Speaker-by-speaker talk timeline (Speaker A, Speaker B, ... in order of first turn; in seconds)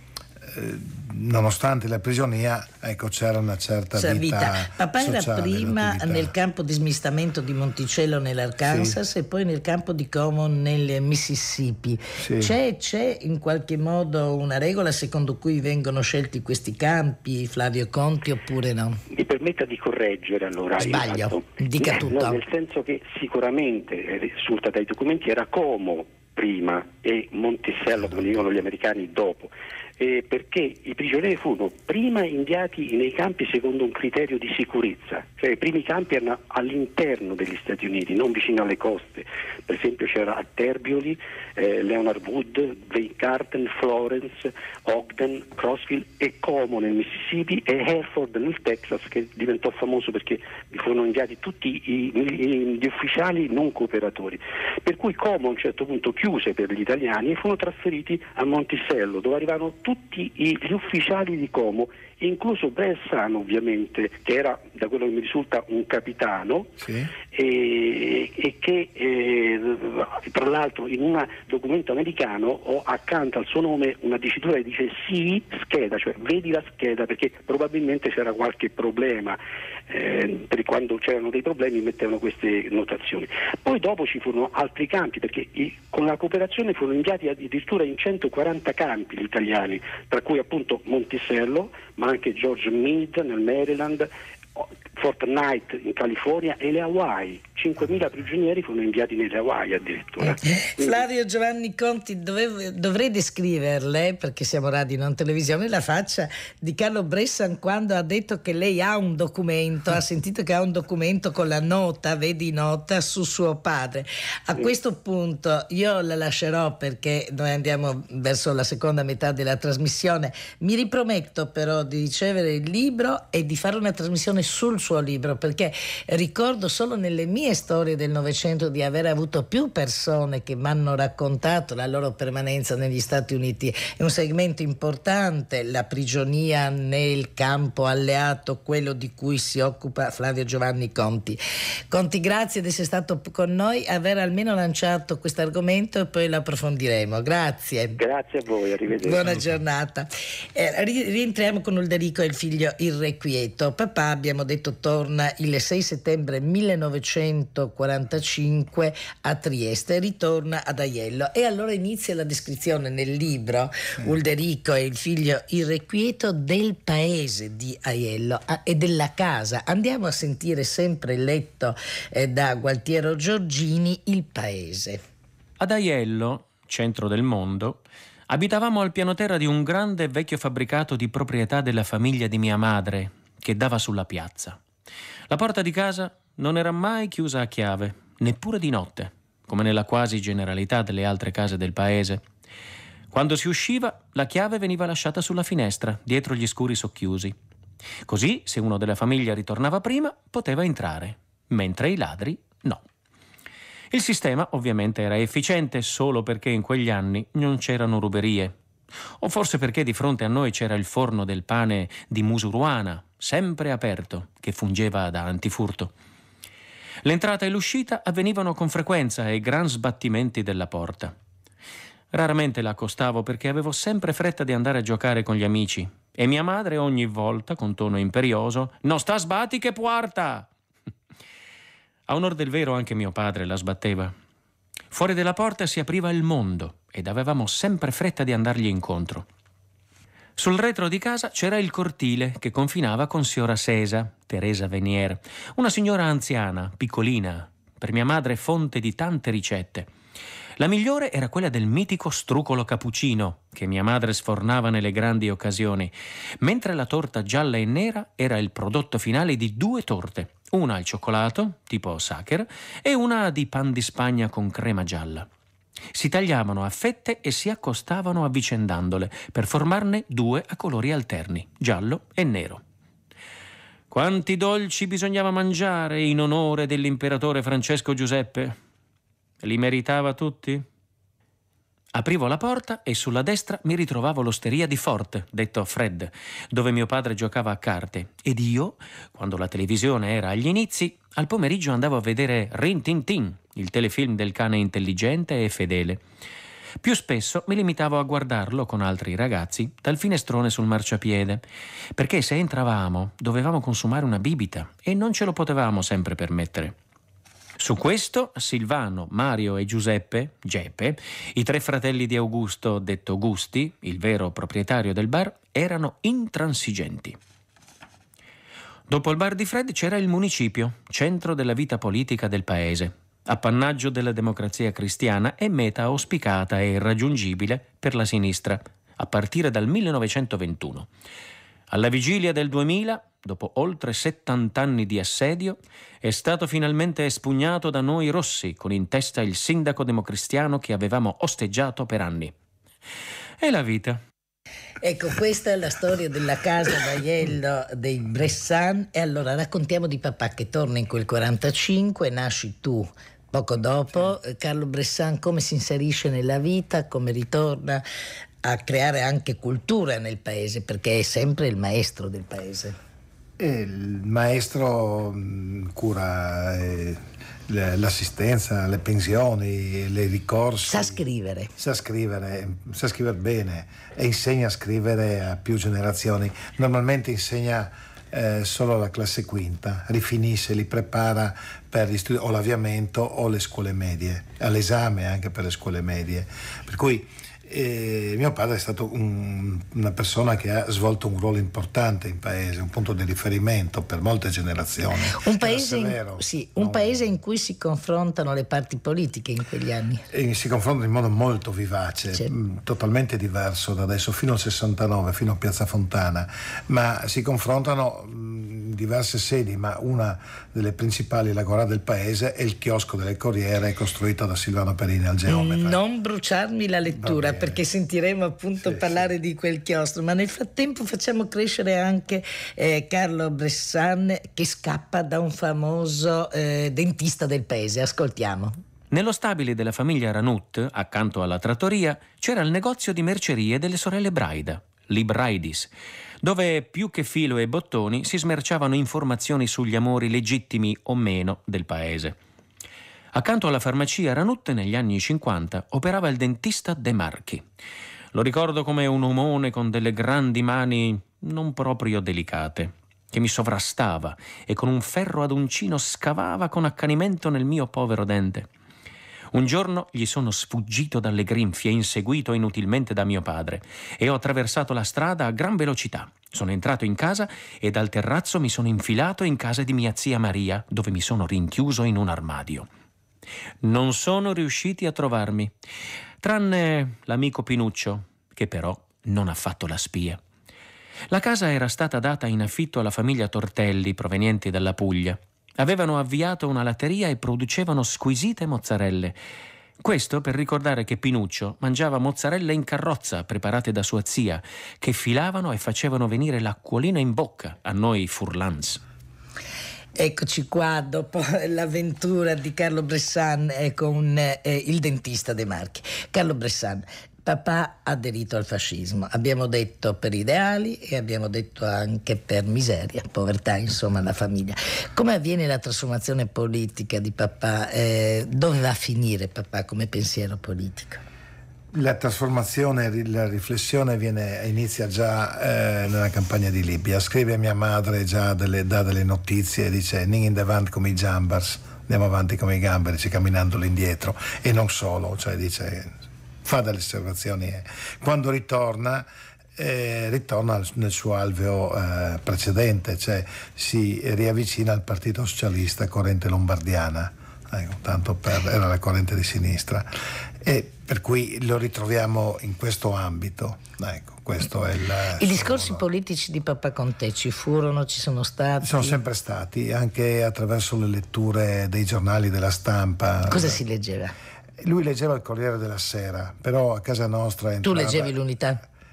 Speaker A: 0.4-6.3, 8.7-9.0, 12.2-12.5, 66.8-67.1, 363.4-371.0, 371.6-397.0, 400.1-415.8, 416.9-417.6, 418.6-419.1, 521.7-549.9, 550.4-555.9, 558.6-563.6, 564.6-568.1
Speaker B: 4.0-19.0, 20.8-22.4, 100.2-141.4, 141.9-148.0, 149.0-175.0, 344.8-357.8, 358.4-362.8, 370.7-371.5, 395.2-400.0, 415.3-428.5, 500.0-521.0, 555.2-559.0, 563.3-564.1, 567.6-568.6
Speaker C: 19.1-66.7, 67.3-101.0, 148.0-149.6
Speaker D: 175.6-184.6, 185.3-192.2, 193.1-197.3, 198.1-202.8, 203.9-208.6, 209.2-215.9, 217.0-221.2, 222.1-230.5, 232.1-234.1, 234.9-239.3, 240.4-249.9, 250.6-265.3, 265.9-272.6, 273.9-278.6, 279.4-280.6, 281.9-296.0, 296.8-301.4, 302.0-306.8, 307.6-317.2, 318.9-330.9, 331.7-342.3, 343.4-344.0, 428.9-435.7, 436.2-442.2, 443.1-447.4, 448.1-458.5, 459.3-472.7, 473.6-475.5, 476.2-480.2, 481.1-489.2, 489.8-498.8